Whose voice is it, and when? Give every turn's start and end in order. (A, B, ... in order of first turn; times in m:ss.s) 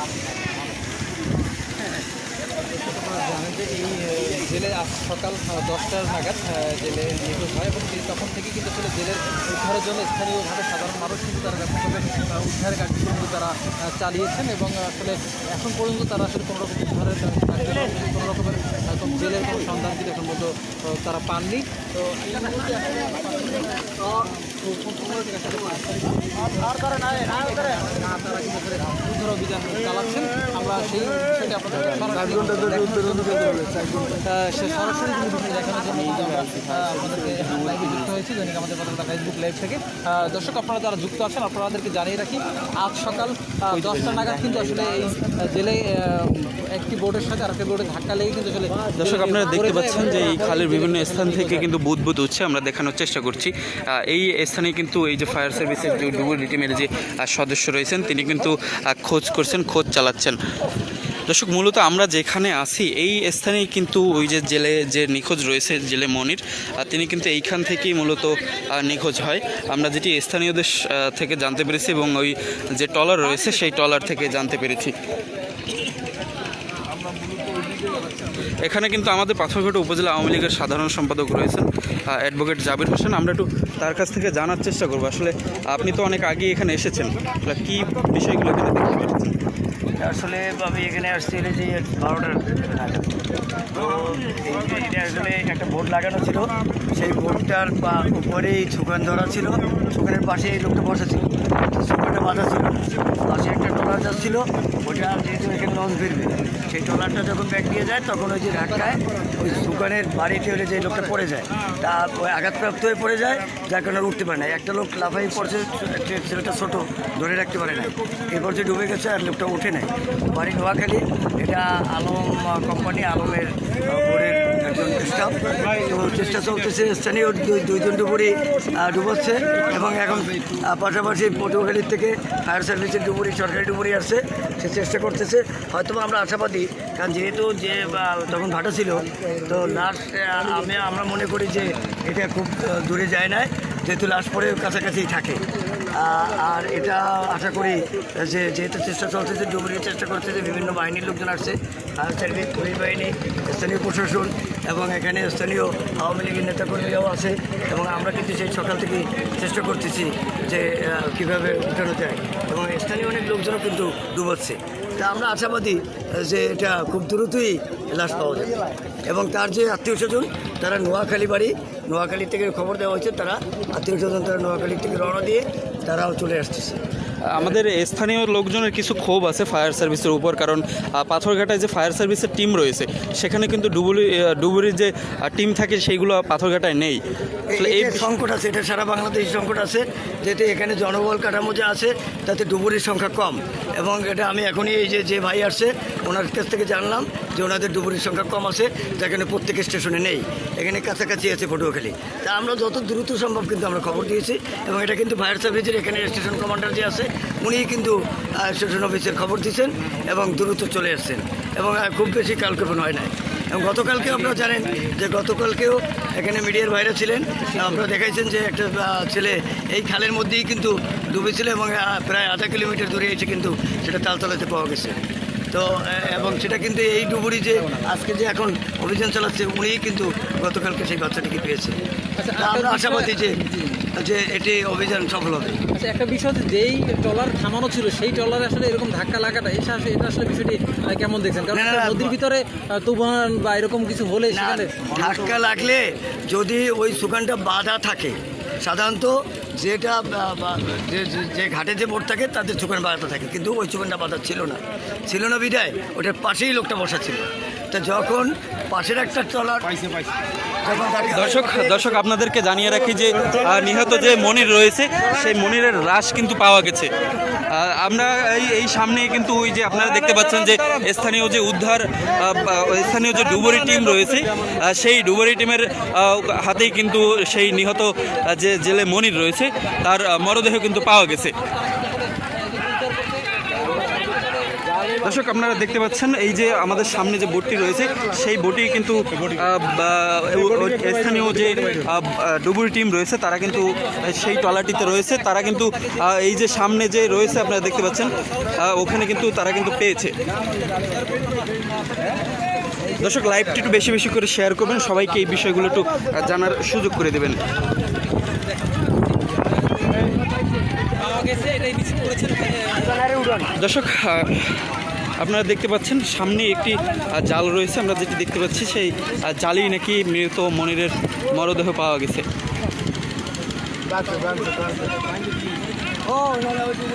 0:02.9-0:51.7 A
0:36.5-0:36.9 B
0:43.8-0:45.0 B
0:49.0-1:00.4 B
1:01.3-1:15.0 B
1:18.6-1:29.4 B
1:30.0-1:33.2 C
1:33.7-2:25.4 C
2:25.9-2:48.5 C
2:49.1-2:56.8 C
2:57.2-3:07.0 B
3:07.5-3:45.0 C
3:07.6-3:08.1 B
3:45.5-3:51.8 C
3:52.2-3:53.1 A
3:52.4-3:53.3 C
3:54.0-3:55.6 C
3:55.7-4:04.7 A
4:01.5-4:02.1 C
4:04.3-4:19.8 C
4:20.6-4:21.8 C
4:21.2-4:26.9 B
4:27.5-4:41.4 B
4:41.6-4:44.8 A
4:45.0-5:00.2 B
5:00.4-5:02.2 A
5:03.0-5:07.4 B
5:11.0-5:13.1 A
5:13.5-5:22.3 B